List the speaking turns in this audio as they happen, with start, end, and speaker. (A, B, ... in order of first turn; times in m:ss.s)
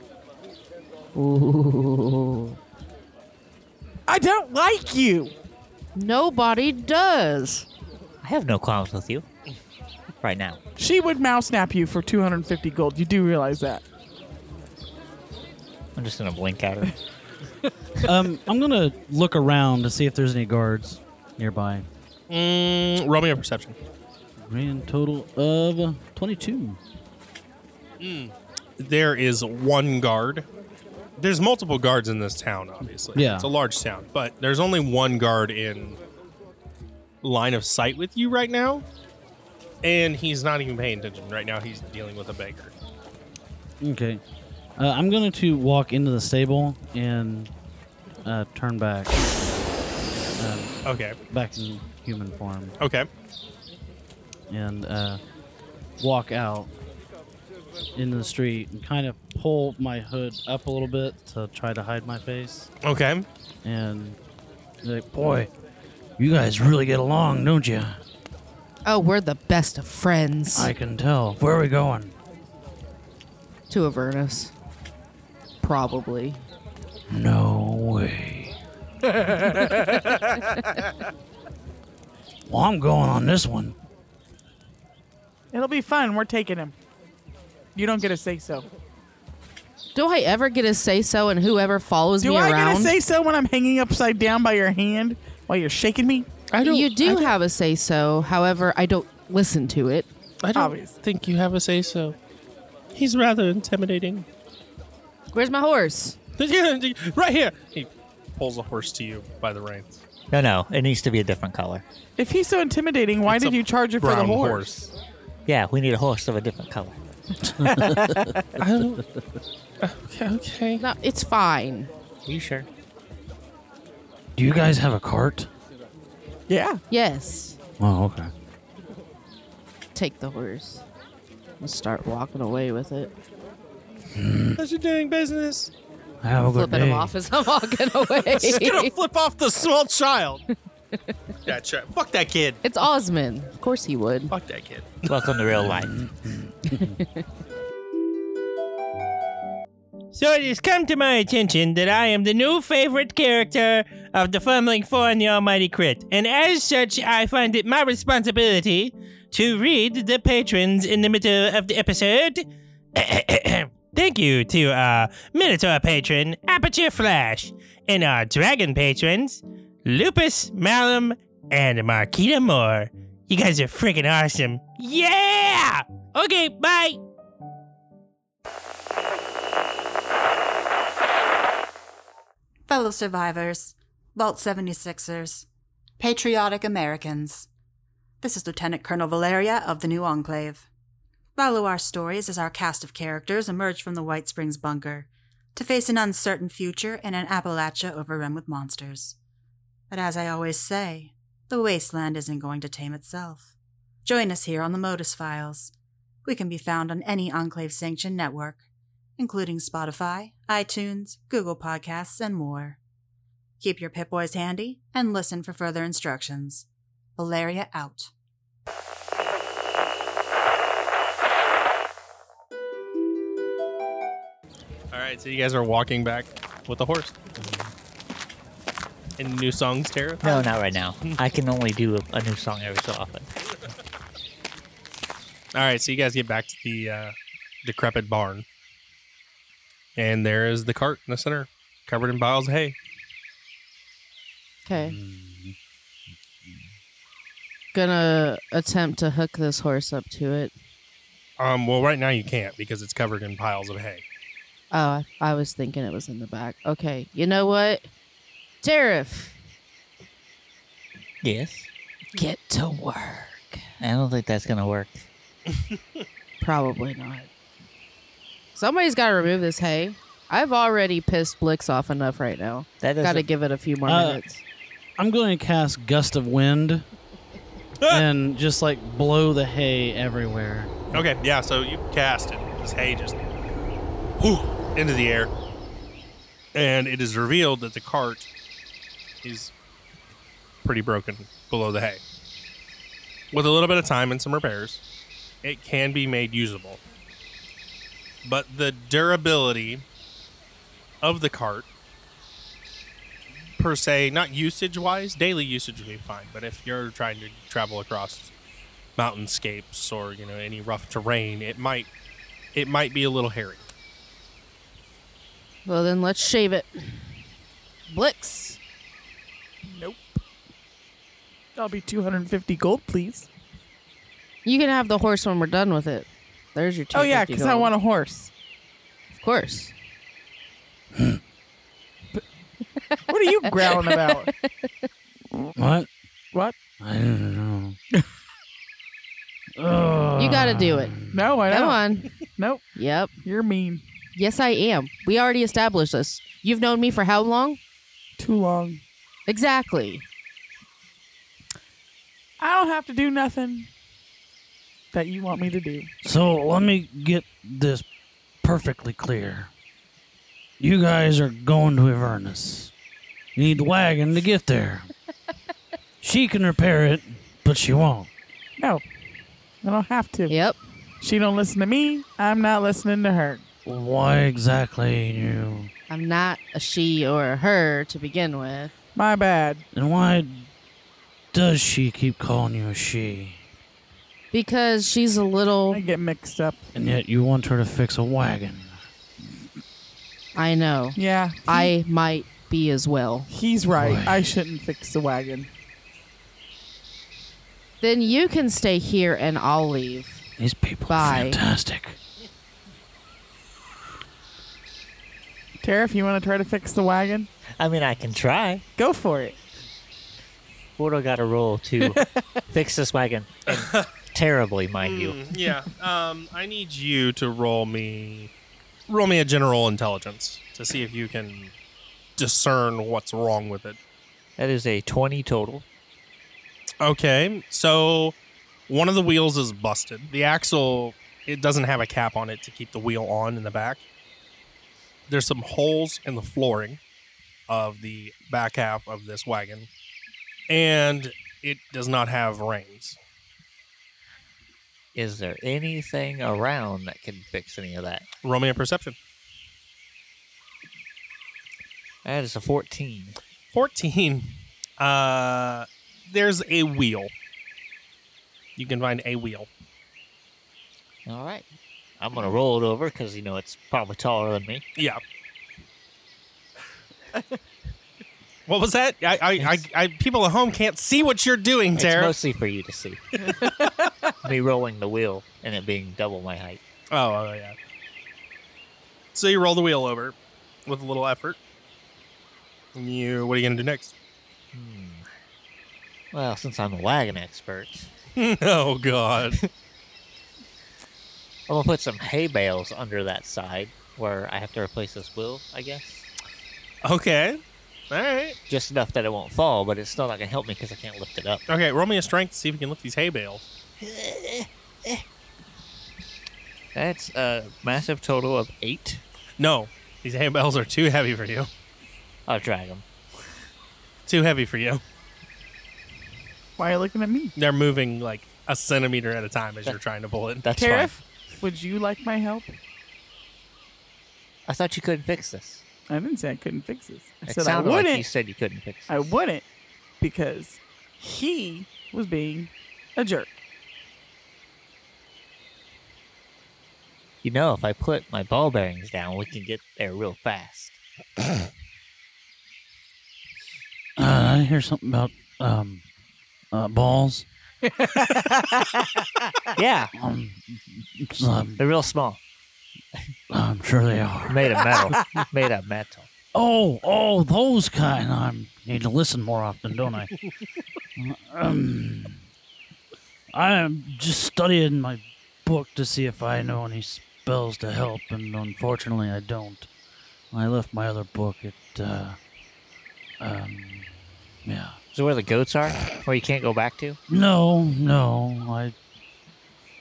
0:01.2-0:02.6 A
0:04.1-0:05.4 B
0:06.0-0:07.7 A
0:08.2-0:09.3 C
0:10.2-0:10.6 C
0:10.8-0:13.8 B
0:16.0-0:16.9 C
0:18.0-0:21.9 D
0:22.3-0:23.8 E
0:24.4-0:26.8 D
0:28.0-0:30.5 E
0:31.2-0:36.0 E
0:33.1-0:33.5 D
0:37.2-0:38.8 E
0:39.8-0:42.8 E
0:43.8-0:44.2 D
0:44.8-0:47.5 D
0:48.2-0:49.2 D
0:50.4-0:50.8 D
0:50.8-0:51.2 E
0:51.3-0:52.8 D
0:52.8-0:53.1 E
0:54.5-0:55.2 D
0:56.0-0:56.7 D
0:58.0-1:02.7 D
1:02.8-1:03.2 E
1:03.6-1:04.2 D
1:04.8-1:05.5 D
1:06.2-1:08.0 D
1:08.8-1:10.7 A
1:10.6-1:12.2 D
1:13.7-1:14.5 A
1:15.6-1:16.4 A
1:17.1-1:18.6 D
1:22.5-1:23.8 D
1:25.5-1:26.8 B
1:27.8-1:28.7 B
1:30.0-1:33.0 A
1:32.2-1:36.3 B
1:36.5-1:37.3 E
1:36.6-1:40.1 A
1:40.4-1:42.2 E
1:40.6-1:41.0 B
1:42.9-1:44.3 E
1:45.3-1:46.2 A
1:46.4-1:50.0 E
1:50.3-1:51.8 C
1:52.2-1:54.7 B
1:53.3-1:54.9 E
1:55.5-1:57.0 C
1:57.6-1:58.4 B
1:57.6-1:58.3 D
1:58.6-1:59.0 E
1:59.8-2:00.8 E
2:00.8-2:01.9 A
2:02.3-2:02.7 C
2:04.4-2:05.5 D
2:06.5-2:06.8 B
2:06.9-2:07.6 A
2:07.8-2:08.3 D
2:10.0-2:10.8 A
2:11.6-2:13.1 A
2:14.1-2:14.6 D
2:14.6-2:15.7 E
2:16.2-2:17.1 D
2:16.5-2:18.9 A
2:18.2-2:20.4 E
2:21.5-2:22.6 E
2:22.6-2:24.3 A
2:24.3-2:25.4 E
2:25.1-2:26.0 C
2:25.6-2:27.0 D
2:26.7-2:27.2 A
2:30.1-2:57.0 F
2:30.6-2:31.0 E
2:32.1-2:32.8 E
2:36.3-2:38.5 E
2:40.4-2:42.2 E
2:44.0-2:44.8 E
2:45.7-2:46.0 E
2:46.8-2:47.4 E
2:51.8-2:52.0 E
2:54.9-2:55.6 E
3:02.7-3:05.5 G
3:06.0-3:07.5 G
3:08.2-3:10.7 G
3:11.4-3:19.2 G
3:19.9-3:23.5 G
3:24.0-3:25.7 G
3:26.2-3:28.6 G
3:29.2-3:32.8 G
3:33.6-3:38.1 G
3:44.9-3:47.2 E
3:47.4-3:47.7 C
3:49.2-3:50.4 E
3:50.2-3:53.3 C
3:55.5-3:58.4 E
4:00.0-4:02.8 E
4:04.6-4:05.0 A
4:04.7-4:05.6 D
4:07.7-4:10.5 A
4:11.4-4:14.0 E
4:14.7-4:17.9 A
4:18.6-4:19.4 A
4:21.2-4:21.7 C
4:22.2-4:23.6 A
4:23.8-4:25.1 C
4:26.4-4:27.3 A
4:28.6-4:34.4 A
4:32.8-4:33.2 C
4:33.9-4:34.2 D
4:35.0-4:36.8 D
4:37.9-4:40.9 D
4:40.9-4:43.2 E
4:44.2-4:45.3 E
4:46.5-4:48.3 E
4:49.2-4:49.5 E
4:50.6-4:52.0 E
4:53.3-4:54.8 E
4:55.4-4:56.8 E
4:58.2-4:59.8 E
5:01.0-5:01.7 E
5:03.6-5:08.3 E
5:09.0-5:11.9 E
5:12.5-5:13.6 E
5:15.7-5:17.1 A
5:17.9-5:18.6 A
5:19.7-5:20.2 B
5:21.6-5:23.3 B
5:24.4-5:27.7 A
5:26.9-5:28.3 B
5:29.1-5:29.7 A
5:33.1-5:34.3 B
5:33.8-5:34.3 A
5:35.6-5:35.9 D
5:36.8-5:37.8 D
5:39.6-5:41.2 D
5:40.2-5:41.0 A
5:41.1-5:42.6 B
5:41.5-5:42.1 A
5:42.8-5:43.1 A
5:43.2-5:43.8 B
5:44.2-5:47.6 A
5:48.2-5:48.8 B
5:49.3-5:50.1 A
5:52.4-5:53.7 B
5:54.9-5:55.9 B
5:56.0-5:57.8 D
5:58.4-5:59.5 D
6:00.6-6:02.7 D
6:03.4-6:04.9 D
6:06.0-6:08.1 D
6:08.6-6:08.8 B
6:09.6-6:10.3 B
6:10.3-6:10.6 A
6:11.0-6:13.4 B
6:13.6-6:15.7 D
6:15.9-6:18.7 A
6:19.0-6:19.6 B
6:19.7-6:20.5 D
6:21.3-6:23.4 D
6:24.3-6:25.8 A
6:25.7-6:26.6 B
6:26.8-6:28.8 D
6:30.4-6:33.3 A
6:31.0-6:31.7 B
6:33.3-6:35.5 B
6:33.8-6:34.2 D
6:37.8-6:40.2 A
6:40.4-6:42.0 D
6:40.9-6:41.4 A
6:45.6-6:47.3 B
6:47.6-6:48.6 C
6:48.8-6:49.4 B
6:50.8-6:52.0 C
6:51.8-6:52.4 B
6:52.5-6:55.2 C
6:53.5-6:53.9 E
6:54.8-6:58.3 E
6:58.9-7:01.5 E
7:02.2-7:03.8 E
7:04.4-7:05.7 C
7:06.8-7:08.2 E
7:08.7-7:13.8 E
7:15.1-7:16.8 E
7:17.5-7:19.7 E
7:20.5-7:23.0 E
7:25.0-7:28.1 C
7:28.2-7:29.0 E
7:32.0-7:33.2 C
7:33.5-7:37.1 E
7:38.6-7:39.5 E
7:41.1-7:41.5 C
7:42.0-7:44.6 C
7:44.8-7:45.0 E
7:48.5-7:52.1 E
7:51.8-7:53.0 C
7:53.3-7:53.7 B
7:54.2-7:56.6 C
7:56.9-7:57.6 E
7:59.1-8:00.2 E
8:00.7-8:01.4 E
8:02.8-8:03.9 E
8:04.5-8:05.1 C
8:06.1-8:07.9 C
8:08.2-8:09.4 E
8:11.5-8:16.1 C
8:16.8-8:17.4 E
8:17.9-8:18.4 E
8:18.5-8:21.4 C
8:21.5-8:23.5 E
8:23.8-8:25.0 C
8:26.8-8:29.0 C
8:29.4-8:31.5 E
8:32.3-8:32.8 C
8:34.1-8:34.8 E
8:36.6-8:37.3 B
8:37.4-8:40.4 E
8:40.4-8:41.0 C
8:40.5-8:42.6 B
8:44.5-8:45.6 C
8:45.9-8:48.0 B
8:47.3-8:49.1 C
8:48.9-8:49.4 B
8:50.0-8:53.4 B
8:57.2-9:00.8 C
9:04.0-9:05.8 D
9:06.5-9:07.3 D
9:07.9-9:08.5 B
9:09.6-9:09.9 C
9:10.0-9:11.6 D
9:11.6-9:12.2 C
9:13.3-9:14.9 D
9:14.3-9:16.1 C
9:16.3-9:20.1 D
9:21.0-9:22.2 D
9:23.3-9:29.7 D
9:30.3-9:32.2 D
9:33.2-9:33.9 D
9:34.4-9:34.8 D
9:34.9-9:37.0 C
9:37.1-9:38.8 D